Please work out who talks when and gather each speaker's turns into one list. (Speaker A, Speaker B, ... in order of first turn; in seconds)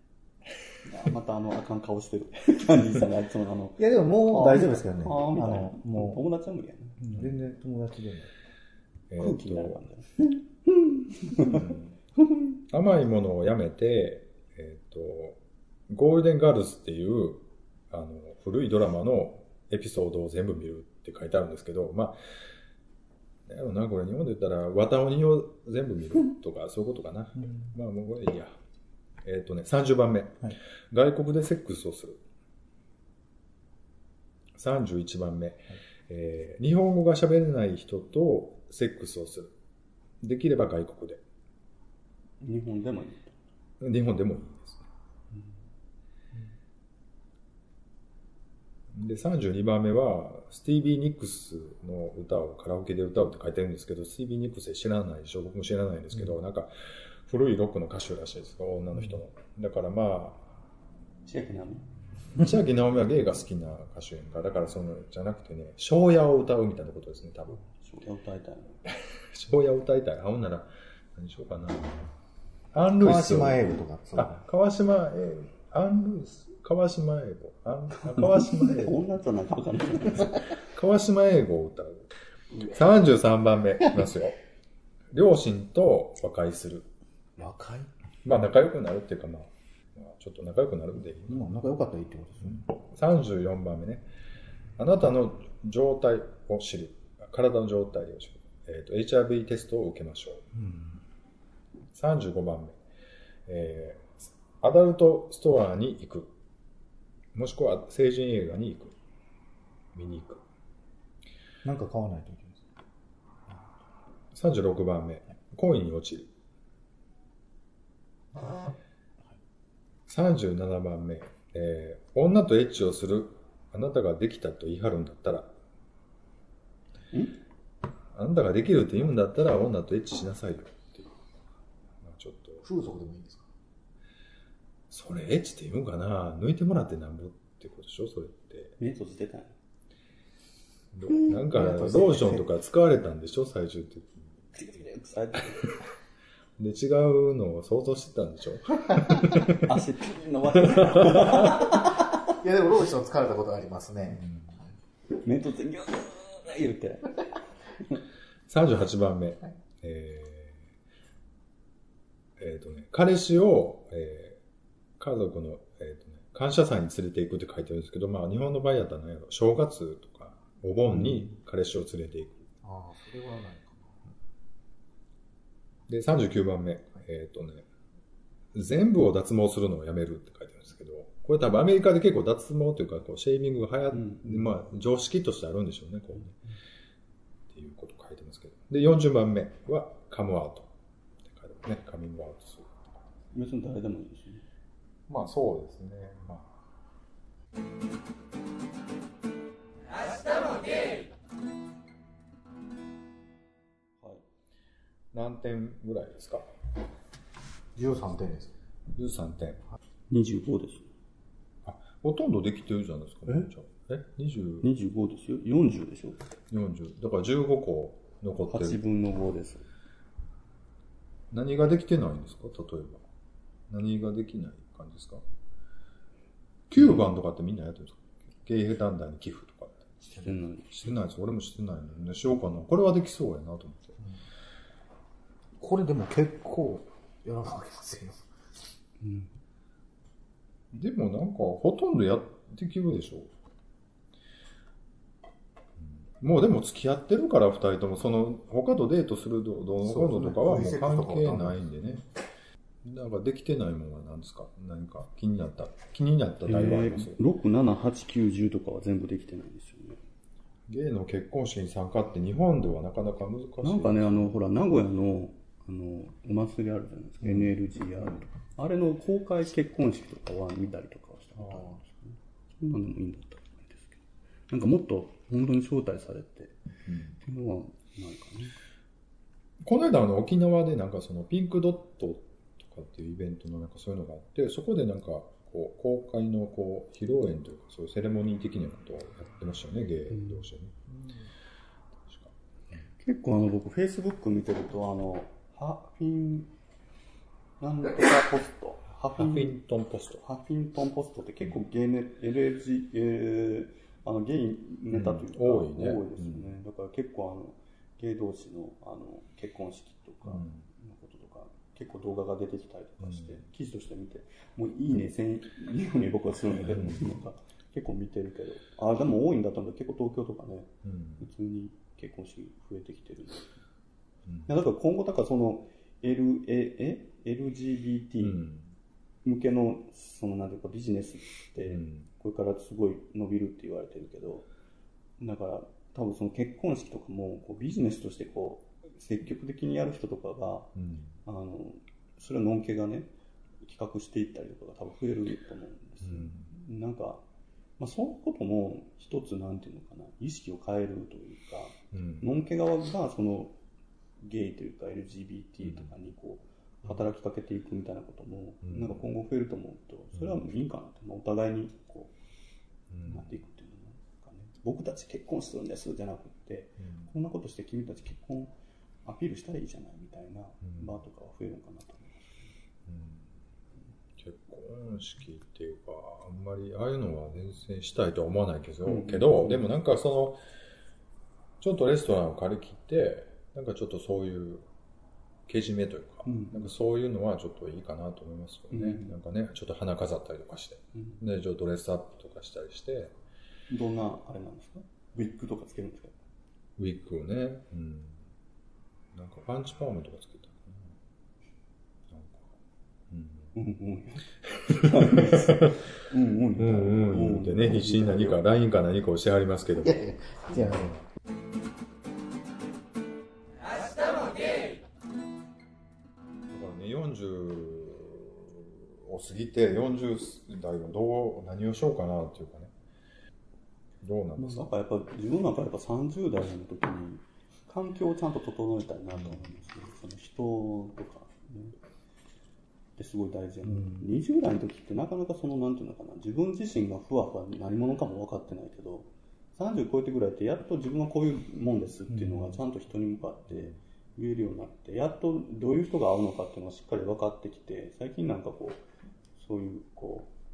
Speaker A: 0.8-7.0, 9.2-10.1, 11.1-11.7, 42.4-43.4, 61.2-61.9, 67.7-68.8, 78.1-80.5, 138.8-139.5, 144.5-145.8, 149.5-152.2, 155.2-157.2, 183.9-184.4, 193.3-194.4, 210.1-210.9, 214.6-216.2, 218.5-219.7, 230.1-230.8, 239.0-239.3, 256.4-260.0, 263.6-276.6, 277.1-278.6, 293.0-296.5, 297.6-299.6, 300.2-323.5, 324.5-328.4, 329.2-334.5, 335.2-343.1, 343.6-347.2, 347.8-353.6, 354.2-362.1, 363.1-372.4, 378.8-379.6, 386.2-386.6, 388.7-389.1, 393.7-396.1, 403.5-408.4, 424.4-431.8, 433.0-448.8, 449.4-450.3
Speaker B: 3.8-6.2, 7.0-8.3, 72.9-74.3, 87.4-87.9, 91.3-92.6, 100.5-100.9, 111.6-112.6, 132.6-133.4, 141.3-142.5, 152.2-154.2, 172.6-173.9, 207.8-208.5, 235.6-238.2, 249.8-251.7, 409.8-411.0
Speaker C: 9.1-9.8, 11.4-11.9, 12.7-15.4, 15.9-22.1, 23.5-28.5, 29.2-32.2, 34.5-39.5, 40.2-41.2, 43.8-44.9, 48.9-56.7, 57.2-60.4, 62.3-67.6, 68.9-72.1, 72.7-79.0, 80.2-82.1, 82.6-84.4, 85.1-86.9, 88.2-91.4, 92.9-94.1, 94.8-100.5, 101.9-102.8, 103.5-106.3, 107.3-108.9, 109.9-110.4, 114.3-116.3, 120.1-125.5, 128.1-131.2, 132.0-132.6, 134.9-138.8, 140.9-144.5, 146.6-149.7, 150.7-151.4, 158.5-160.6, 162.4-164.4, 165.0-172.4, 175.9-177.7, 178.5-186.4, 187.5-190.7, 191.2-192.9, 195.1-196.5, 205.1-206.5, 208.9-209.6, 211.6-214.7, 216.5-218.8, 221.3-223.0, 223.7-225.2, 226.7-229.9, 230.7-234.0, 240.7-243.3, 245.8-252.0, 252.8-257.2, 260.7-264.4, 276.9-277.1, 279.6-290.7, 299.1-300.2, 304.9-306.5, 310.3-310.6, 313.1-313.4, 316.7-317.0, 320.8-321.2, 328.2-328.7, 331.7-332.1, 340.8-341.1, 346.0-346.5, 351.9-352.2, 358.6-358.9, 362.9-363.2, 372.9-373.3, 374.2-380.4, 381.6-384.6, 385.5-393.1, 396.8-398.2, 399.1-400.9, 402.1-402.5, 403.1-403.5, 404.6-405.7, 406.6-411.0, 416.5-422.7, 424.0-424.7